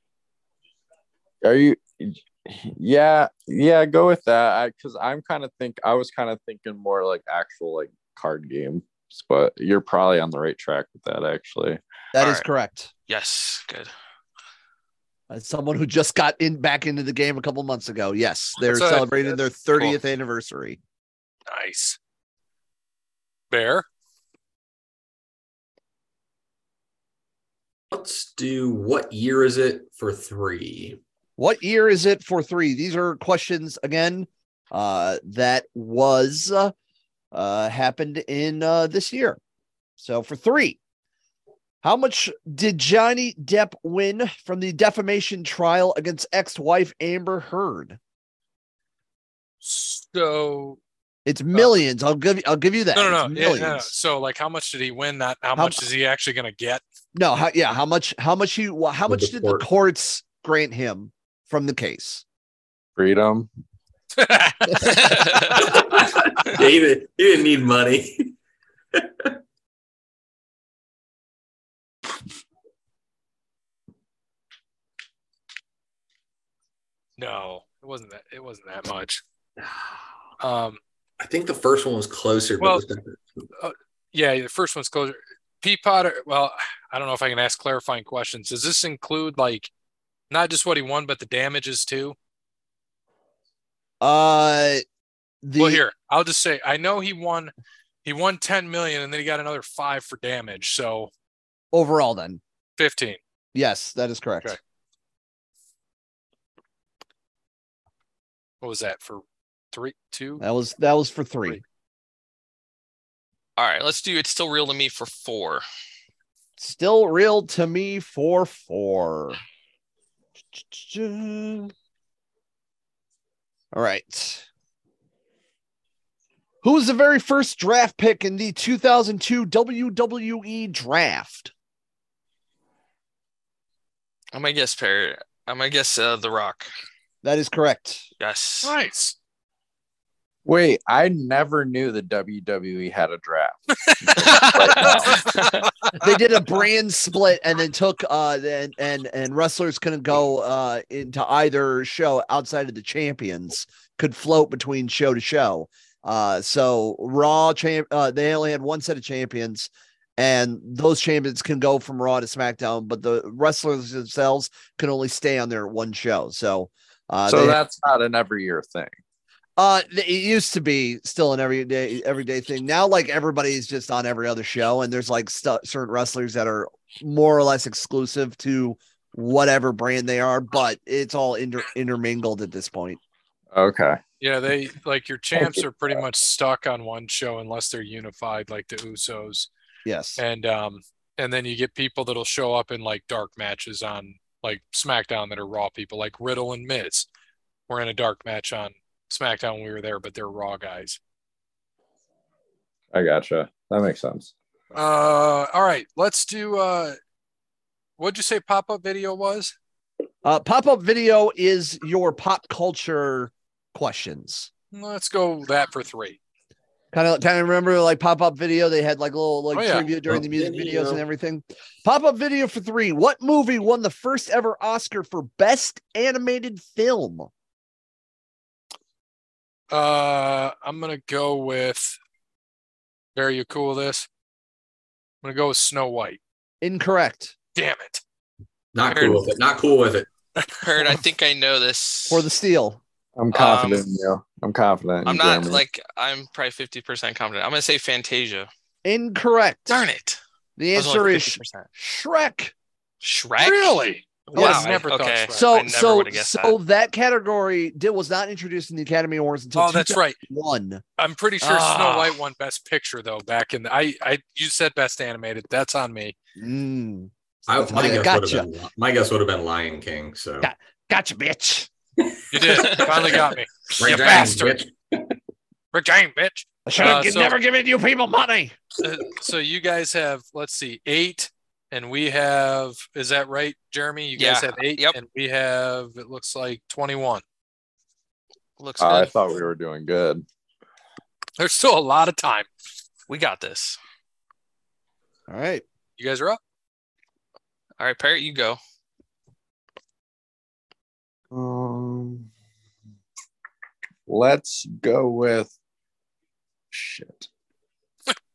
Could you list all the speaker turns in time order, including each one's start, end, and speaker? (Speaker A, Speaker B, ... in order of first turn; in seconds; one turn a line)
Speaker A: 1.4-11.8
Speaker B: 12.1-12.9
Speaker C: 12.2-12.4
Speaker C: 13.1-13.9
Speaker B: 15.3-20.8
Speaker D: 18.6-19.1
Speaker D: 21.5-22.0
Speaker D: 23.5-23.9
Speaker E: 27.9-31.0
Speaker B: 31.4-36.7
Speaker B: 37.3-39.4
Speaker B: 40.0-40.8
Speaker B: 41.8-48.0
Speaker D: 49.6-50.8
Speaker B: 51.3-53.9
Speaker D: 52.9-56.8
Speaker B: 55.6-55.8
Speaker B: 57.1-62.2
Speaker E: 59.1-59.7
Speaker A: 63.0-63.5
Speaker D: 64.2-65.8
Speaker C: 64.8-65.6
Speaker E: 65.6-68.3
Speaker E: 69.0-69.3
Speaker D: 77.2-79.2
Speaker D: 80.4-80.8
Speaker E: 81.2-83.2
Speaker D: 83.6-89.7
Speaker D: 90.3-92.2
Speaker B: 94.0-94.8
Speaker B: 95.4-95.8
Speaker D: 95.6-97.5
Speaker D: 98.0-101.1
Speaker B: 101.7-102.4
Speaker D: 102.8-103.2
Speaker B: 103.5-104.6
Speaker D: 108.6-110.4
Speaker B: 110.4-111.6
Speaker C: 113.6-115.6
Speaker B: 116.6-119.4
Speaker B: 120.5-121.7
Speaker B: 123.7-124.5
Speaker B: 126.6-131.5
Speaker C: 134.3-136.7
Speaker B: 137.2-138.1
Speaker C: 138.2-138.7
Speaker D: 138.6-139.2
Speaker A: 140.4-145.3
Speaker D: 143.9-145.7
Speaker C: 144.2-145.7
Speaker B: 146.0-167.6
Speaker A: 167.3-169.0
Speaker B: 169.6-183.0
Speaker A: 183.5-184.0
Speaker D: 184.2-189.5
Speaker A: 185.3-186.0
Speaker B: 189.8-190.2
Speaker D: 190.2-197.1
Speaker D: 197.7-201.0
Speaker A: 202.9-204.3
Speaker D: 204.7-207.0
Speaker D: 208.0-209.6
Speaker B: 210.2-214.5
Speaker D: 214.7-216.2
Speaker B: 216.9-227.3
Speaker D: 219.5-219.9
Speaker E: 220.1-221.0
Speaker D: 229.7-232.0
Speaker D: 233.2-234.1
Speaker D: 235.2-236.2
Speaker B: 236.6-237.3
Speaker D: 237.6-238.0
Speaker E: 238.7-240.1
Speaker C: 240.6-242.3
Speaker B: 242.1-242.8
Speaker A: 243.2-245.6
Speaker C: 243.3-243.8
Speaker C: 245.1-248.5
Speaker B: 248.8-249.9
Speaker C: 249.7-250.2
Speaker B: 250.6-252.5
Speaker C: 250.8-251.7
Speaker C: 253.0-256.6
Speaker D: 253.4-255.5
Speaker B: 254.3-254.8
Speaker B: 255.3-260.8
Speaker D: 259.6-260.2
Speaker D: 261.0-266.1
Speaker C: 261.4-262.2
Speaker B: 266.4-268.5
Speaker E: 267.5-270.5
Speaker B: 270.4-271.7
Speaker D: 272.3-274.6
Speaker E: 272.4-273.0
Speaker C: 272.6-273.2
Speaker E: 273.8-275.1
Speaker D: 275.7-277.4
Speaker B: 276.7-278.6
Speaker D: 278.8-287.2
Speaker C: 284.2-285.0
Speaker C: 288.6-289.1
Speaker A: 288.8-290.2
Speaker D: 291.4-292.5
Speaker C: 293.1-293.8
Speaker B: 295.3-295.6
Speaker D: 296.0-296.4
Speaker C: 297.8-298.6
Speaker A: 301.3-302.3
Speaker A: 304.1-305.5
Speaker A: 306.7-307.3